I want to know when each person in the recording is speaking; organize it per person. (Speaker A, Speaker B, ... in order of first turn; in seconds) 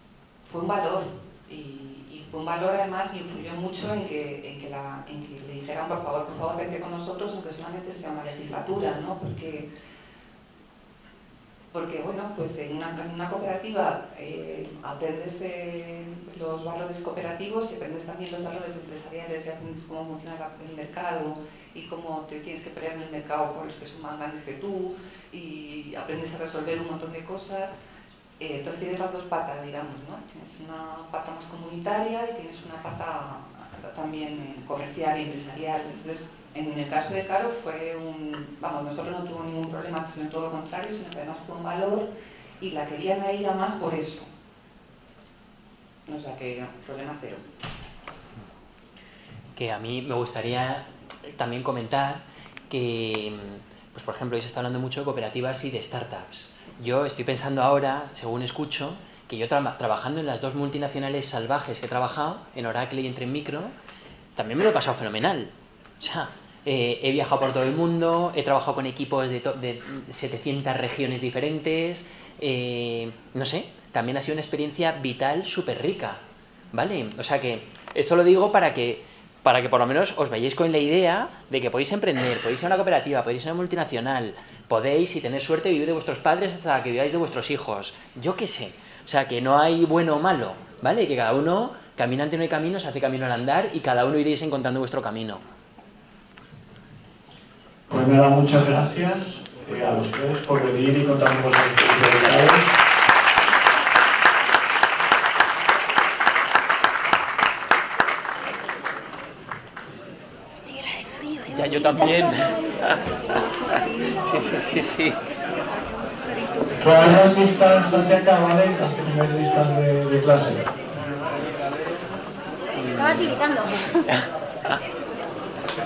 Speaker A: 0.4-9.7, 11.7-27.8, 28.4-42.1, 42.6-44.3, 46.1-47.4
Speaker B: 49.6-63.7, 64.4-76.2, 76.7-95.5, 111.5-113.2, 114.2-115.2, 122.8-123.2
Speaker C: 97.9-102.7, 116.8-120.7
Speaker D: 112.0-112.5, 113.7-114.2, 122.9-124.0